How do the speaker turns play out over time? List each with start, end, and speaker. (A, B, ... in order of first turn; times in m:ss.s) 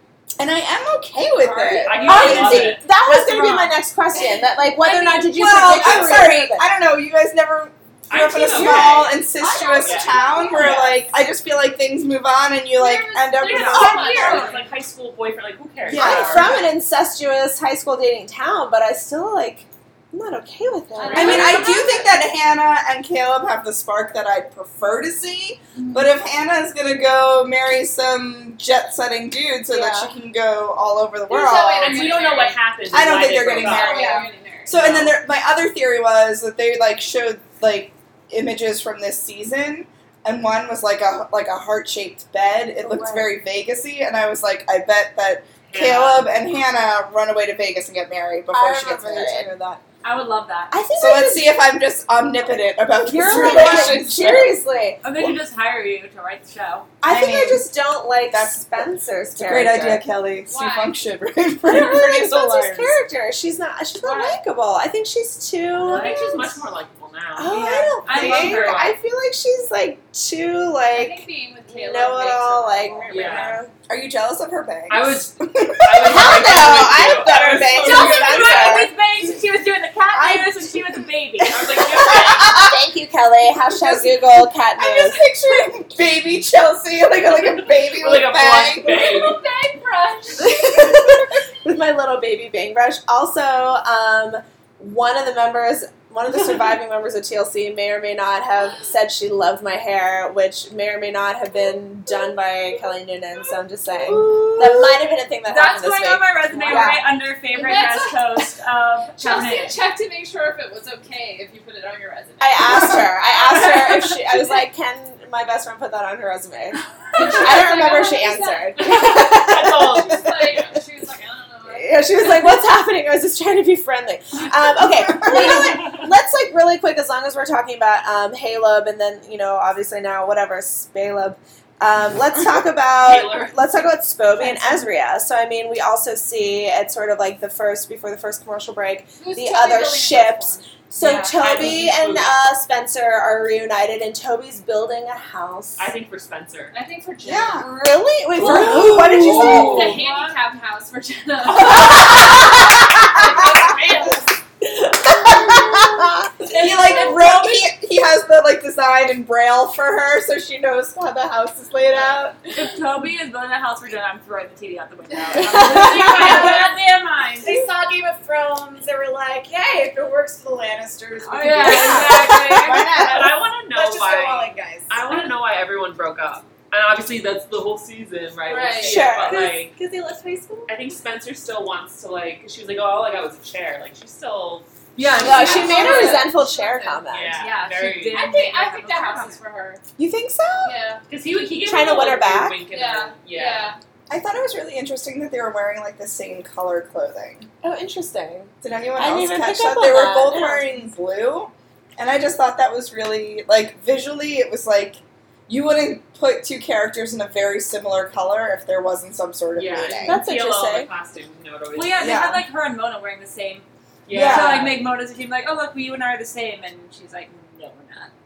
0:00.4-0:02.7 A
0:01.7-0:02.8 B
0:02.0-0:06.7 C
0:02.1-0:03.8 D
0:04.8-0:05.5 D
0:05.3-0:14.6 A
0:08.1-0:09.2 B
0:09.4-0:10.9 E
0:09.8-0:11.0 B
0:12.7-0:14.6 E
0:13.5-0:16.6 B
0:13.5-0:14.6 D
0:15.8-0:16.6 A
0:15.9-0:21.6 C
0:21.0-0:22.1 E
0:21.1-0:32.2 A
0:29.7-0:30.0 C
0:31.3-0:32.6 E
0:31.8-0:35.2 B
0:32.9-0:49.8 A
0:33.4-0:34.8 E
0:42.8-0:43.4 C
0:45.7-0:46.4 B
0:48.5-0:49.5 C
0:50.0-0:50.8 D
0:50.7-0:51.6 C
0:51.0-0:54.6 A
0:53.0-0:55.0 C
0:53.3-0:54.0 D
0:55.0-0:56.9 D
0:57.0-1:00.0 C
0:57.0-0:57.7 A
0:58.3-1:03.0 A
1:00.5-1:01.0 E
1:01.6-1:06.5 C
1:04.0-1:04.4 E
1:05.8-1:09.0 B
1:05.9-1:06.2 D
1:07.4-1:13.7 C
1:07.4-1:08.7 D
1:08.1-1:08.6 A
1:10.9-1:13.6 E
1:13.1-1:13.6 B
1:13.9-1:17.1 A
1:14.9-1:18.8 B
1:16.0-1:18.9 C
1:17.7-1:21.6 D
1:20.2-1:20.5 A
1:21.4-1:22.7 B
1:21.7-1:22.7 A
1:22.1-1:25.3 C
1:23.7-1:29.1 A
1:27.4-1:29.4 B
1:28.8-1:30.5 E
1:30.4-1:47.0 C
1:44.0-1:45.0 A
1:45.4-1:49.8 D
1:46.7-1:46.9 A
1:47.5-1:48.4 E
1:49.2-1:53.8 E
1:52.4-2:00.0 C
1:57.1-1:59.2 E
1:58.8-2:00.7 B
1:59.9-2:02.4 E
2:01.7-2:25.9 C
2:13.0-2:13.8 B
2:19.2-2:20.6 E
2:21.0-2:21.8 D
2:21.1-2:22.4 B
2:25.8-2:26.7 B
2:26.7-2:27.7 E
2:27.2-2:27.7 A
2:27.6-2:29.9 C
2:28.3-2:30.0 A
2:29.2-2:34.3 E
2:29.3-2:29.9 B
2:31.8-2:32.2 C
2:35.0-2:36.3 C
2:35.1-2:42.5 A
2:36.5-2:37.6 D
2:42.5-2:47.7 D
2:45.6-2:46.4 C
2:45.6-2:46.7 F
2:47.4-2:55.1 F
2:51.2-2:53.1 D
2:51.5-2:52.1 E
2:51.6-2:53.4 A
2:52.9-2:59.8 B
2:58.5-2:59.1 E
2:58.8-2:59.6 C
2:59.3-3:00.7 F
3:00.7-3:04.7 B
3:05.0-3:06.2 D
3:05.1-3:09.8 E
3:05.2-3:07.4 C
3:05.2-3:05.9 B
3:07.1-3:08.2 B
3:07.4-3:09.4 D
3:10.0-3:10.7 A
3:10.6-3:11.0 E
3:11.1-3:13.8 B
3:11.6-3:12.6 C
3:12.7-3:13.8 E
3:14.1-3:17.5 A
3:17.6-3:20.7 C
3:18.6-3:30.2 A
3:29.5-3:32.1 B
3:30.0-3:30.9 C
3:31.7-3:38.1 D
3:32.0-3:32.4 A
3:34.0-3:34.8 B
3:34.1-3:34.8 A